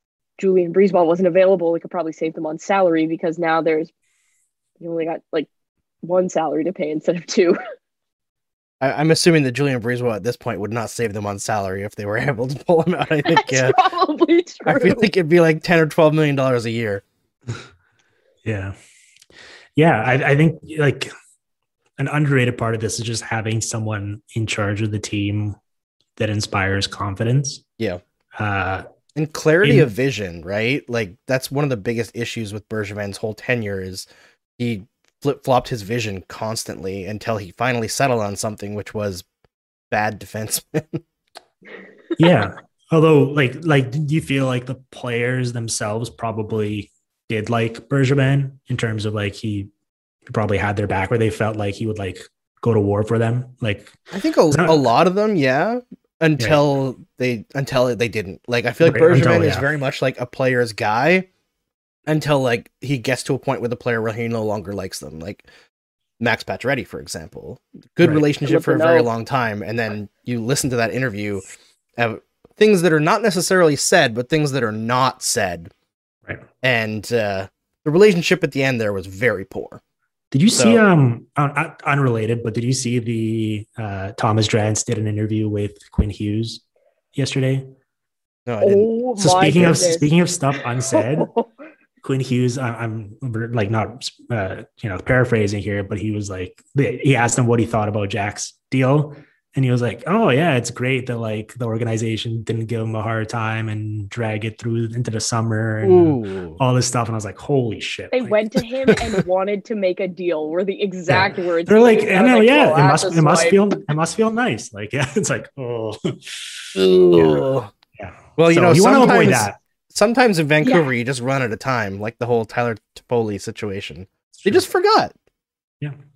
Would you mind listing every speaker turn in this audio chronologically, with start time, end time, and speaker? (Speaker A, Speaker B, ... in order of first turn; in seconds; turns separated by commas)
Speaker A: 0.4-3.9, Speaker A: 4.8-5.5, Speaker A: 6.0-7.6, Speaker B: 8.8-13.8, Speaker A: 13.3-15.1, Speaker B: 14.7-17.0, Speaker C: 18.4-18.7, Speaker C: 19.8-21.1, Speaker C: 22.0-25.6, Speaker C: 26.2-27.6, Speaker C: 28.4-28.8, Speaker B: 29.1-34.1, Speaker C: 29.6-29.9, Speaker B: 34.6-39.2, Speaker B: 39.9-41.0, Speaker C: 42.2-49.7, Speaker C: 50.3-54.0, Speaker B: 54.1-61.3, Speaker C: 54.5-54.8, Speaker C: 58.8-59.7, Speaker B: 62.1-65.5, Speaker B: 66.2-71.5, Speaker A: 68.4-69.1, Speaker B: 72.0-75.7, Speaker B: 76.6-79.8, Speaker C: 80.3-86.6, Speaker B: 80.5-80.8, Speaker C: 87.1-87.7, Speaker B: 88.5-88.9, Speaker A: 88.6-90.0, Speaker C: 89.2-91.3, Speaker B: 89.4-89.8, Speaker A: 90.9-91.5, Speaker C: 92.0-108.6, Speaker B: 105.8-106.6, Speaker A: 108.1-113.6, Speaker C: 111.1-119.6, Speaker B: 116.7-117.7, Speaker B: 118.4-125.1, Speaker A: 120.6-120.9